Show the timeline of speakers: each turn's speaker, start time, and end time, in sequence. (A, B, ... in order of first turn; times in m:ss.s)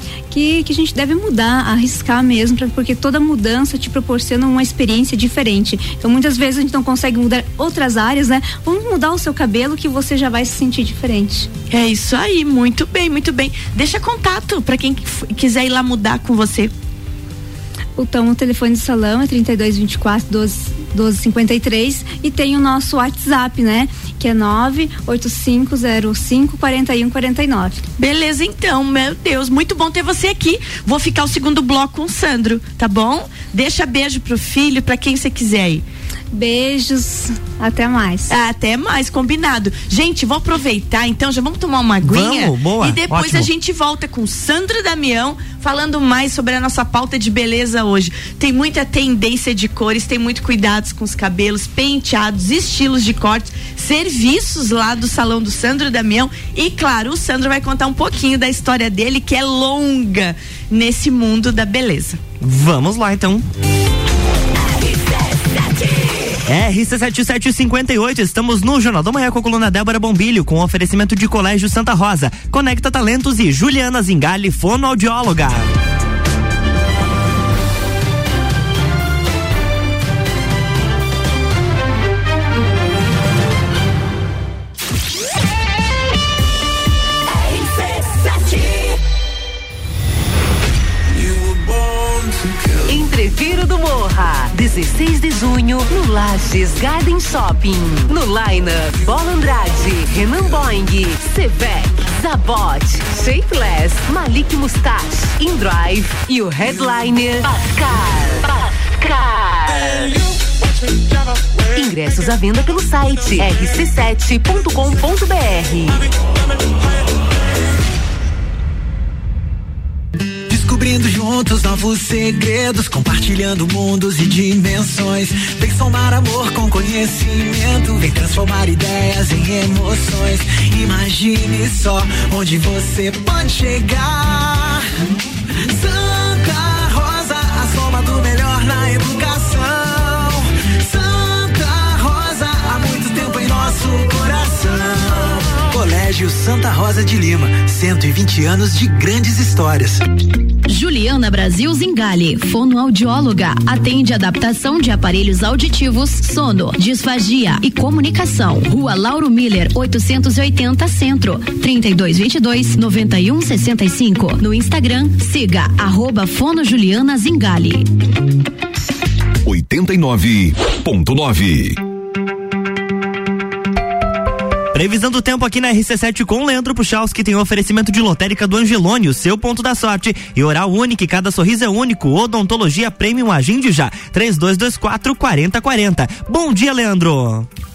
0:00.3-0:11.5 A
0:11.7-0:16.7 B
0:18.0-0:27.8 A
0:28.0-0:35.8 B
0:36.3-0:38.3 A
0:38.3-1:02.2 B
0:42.0-0:43.5 C
1:02.4-1:03.4 C
1:06.4-1:15.7 C
1:31.1-1:32.3 D
1:32.9-1:50.1 E
1:51.7-1:56.0 E
2:00.5-2:14.8 D
2:15.7-2:30.0 D
2:30.7-2:47.9 F
2:49.4-2:51.8 G
2:54.7-3:07.5 C